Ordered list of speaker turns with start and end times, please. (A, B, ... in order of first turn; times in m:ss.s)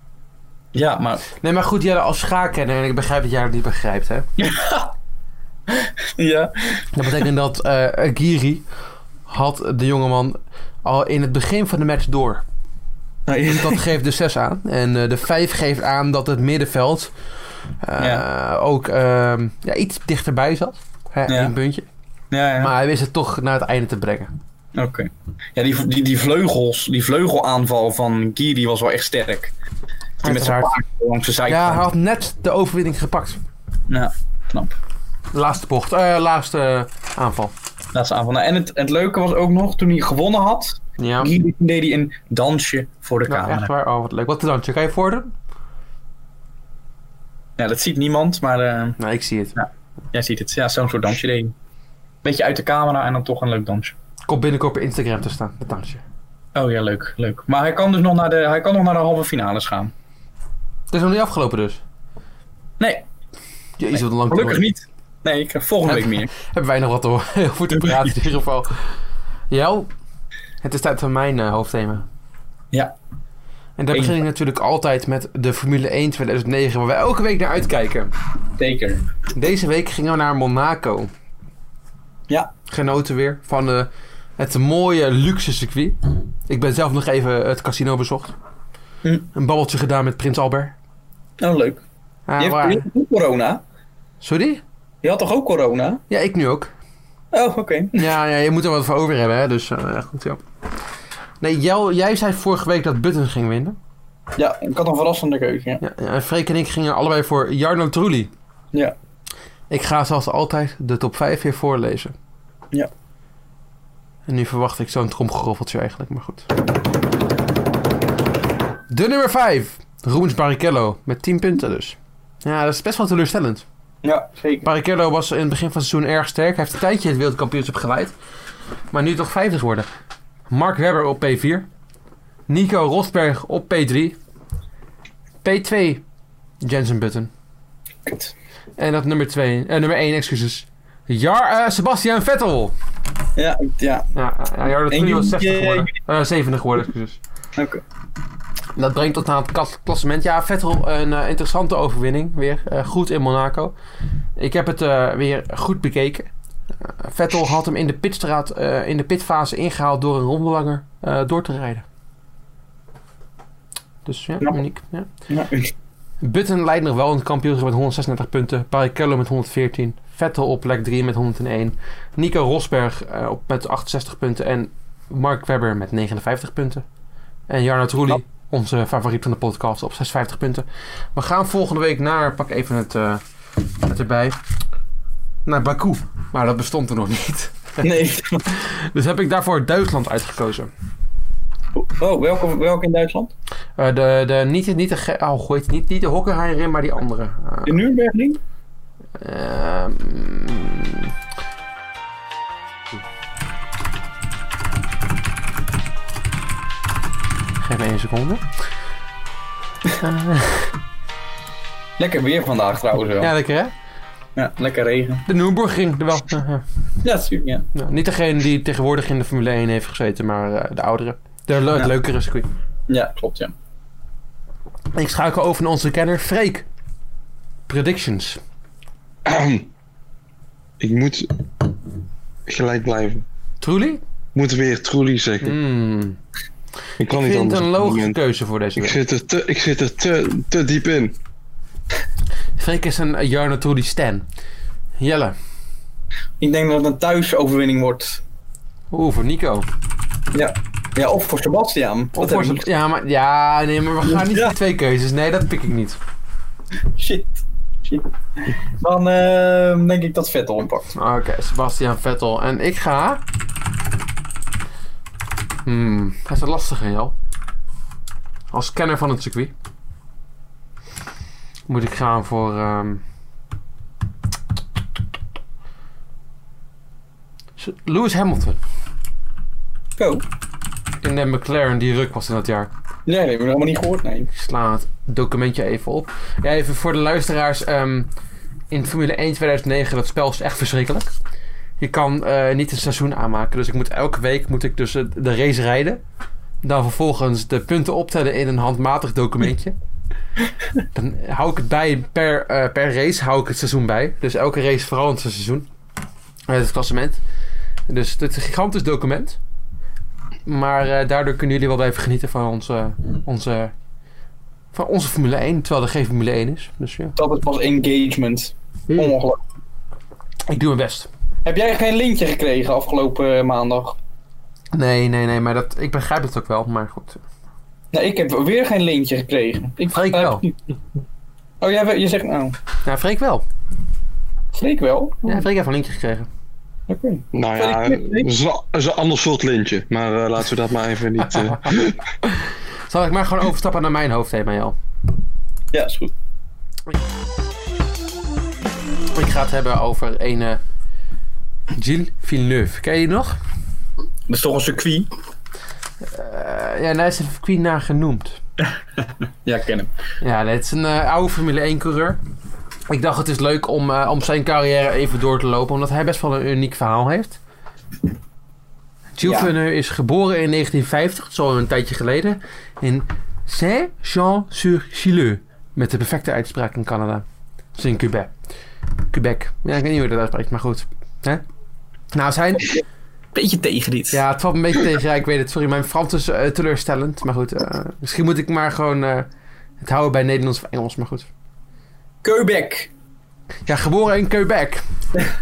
0:00.7-0:01.2 A
0:01.4-0:04.2 B
0:04.4-0:04.9 A
0:05.7-0:06.9 A
0:06.9-0:08.6 B
0:09.3-0:12.4 B
0:13.3-0:13.8 A
0:13.5-0:17.1 B
0:17.8-0:21.9 B
0:22.3-0:22.7 A
0:22.6-0:24.3 B
0:24.8-0:29.5 A
0:30.2-0:30.7 B
0:30.2-0:31.9 A
0:31.5-0:33.4 B
0:33.9-0:34.8 A
0:35.3-0:37.5 B
0:37.9-0:43.7 A
0:41.0-0:41.3 B
0:43.3-0:45.3 B
0:47.6-0:49.0 A
0:49.0-0:49.6 B
0:49.6-0:51.5 A
0:52.2-0:53.9 A
0:54.3-0:56.0 B
0:56.6-0:59.9 A
1:00.9-1:01.8 B
1:02.8-1:03.0 A
1:03.8-1:04.6 B
1:04.3-1:06.3 A
1:05.9-1:08.9 B
1:07.8-1:08.1 A
1:09.5-1:09.9 B
1:10.6-1:12.0 B
1:13.8-1:18.1 B
1:18.6-1:19.1 A
1:19.4-1:21.1 B
1:22.7-1:28.3 B
1:29.3-1:30.7 B
1:31.4-1:31.8 A
1:32.3-1:32.8 B
1:32.4-1:33.6 A
1:34.2-1:34.6 B
1:35.0-1:36.0 A
1:36.1-1:36.7 B
1:37.3-1:38.1 A
1:38.0-1:40.4 B
1:41.4-1:43.8 B
1:44.4-1:45.8 A
1:45.8-1:48.3 B
1:49.7-1:52.1 B
1:54.3-1:56.5 B
1:58.9-2:03.6 B
2:04.0-2:04.6 A
2:04.6-2:08.1 B
2:08.9-2:09.9 B
2:10.5-2:11.7 B
2:12.5-2:14.2 B
2:15.4-2:16.0 B
2:16.6-2:17.3 B
2:18.1-2:18.3 A
2:18.8-2:22.7 B
2:23.4-2:24.1 A
2:24.1-2:27.2 B
2:24.9-2:25.9 A
2:27.6-2:27.8 A
2:28.8-2:33.7 B
2:34.4-2:36.3 B
2:36.8-2:41.8 B
2:44.0-2:45.1 B
2:45.3-2:45.7 A
2:46.2-2:56.8 B
2:57.5-3:03.2 B
3:03.8-3:04.4 B
3:05.4-3:07.8 B
3:07.8-3:08.5 A
3:08.5-3:10.7 B
3:11.7-3:13.3 A
3:13.8-3:17.8 B
3:17.6-3:18.4 A
3:19.2-3:21.1 B
3:27.6-3:28.4 B
3:30.0-3:30.8 B
3:32.0-3:33.3 A
3:33.2-3:33.7 B
3:34.4-3:35.3 A
3:35.3-3:36.6 B
3:37.0-3:37.7 A
3:37.7-3:42.5 B
3:42.9-3:43.5 A
3:44.9-3:46.6 B
3:47.7-3:48.4 B
3:49.2-3:49.7 C
3:50.8-3:51.3 C
3:52.4-3:53.2 C
3:53.6-3:54.0 B
3:54.4-3:55.6 C
3:55.4-3:56.2 B
3:57.0-3:58.2 C
3:57.1-3:59.0 B
3:58.8-4:01.1 C
4:02.6-4:04.3 B
4:05.0-4:05.4 B
4:06.4-4:08.2 A
4:08.9-4:09.6 B
4:10.3-4:12.6 A
4:12.2-4:16.0 B
4:14.1-4:14.5 A
4:16.9-4:20.9 A
4:20.9-4:23.2 B
4:25.6-4:27.1 B
4:28.5-4:29.5 B
4:31.7-4:33.0 B
4:37.6-4:38.6 B
4:40.0-4:40.2 A
4:41.0-4:42.7 B
4:43.1-4:44.3 A
4:44.3-4:48.1 B
4:48.7-4:51.1 B
4:51.8-4:56.0 B
4:56.6-4:59.7 B
5:00.9-5:05.7 B
5:06.5-5:07.2 B
5:07.9-5:09.4 B
5:10.4-5:13.7 B
5:14.7-5:17.1 B
5:17.2-5:19.4 A
5:20.5-5:21.1 B
5:21.4-5:24.0 A
5:24.7-5:27.2 B
5:27.9-5:30.5 A
5:29.9-5:30.4 B
5:31.6-5:32.6 A
5:32.8-5:33.4 B
5:34.5-5:35.4 A
5:35.3-5:36.3 B
5:36.9-5:38.3 A
5:37.3-5:42.0 C
5:42.2-5:44.7 B
5:45.7-5:46.1 A
5:49.1-5:50.6 B
5:51.7-5:53.4 B
5:54.3-5:55.1 A
5:56.0-5:58.4 B
5:59.4-5:59.9 A
6:00.2-6:02.2 B
6:02.9-6:07.4 B
6:09.2-6:17.2 B
6:09.2-6:09.5 A
6:17.7-6:18.3 B
6:19.1-6:21.4 B
6:22.1-6:22.8 B
6:23.4-6:24.2 A
6:24.1-6:29.3 B
6:29.8-6:31.3 B
6:32.2-6:32.9 A
6:33.7-6:34.8 B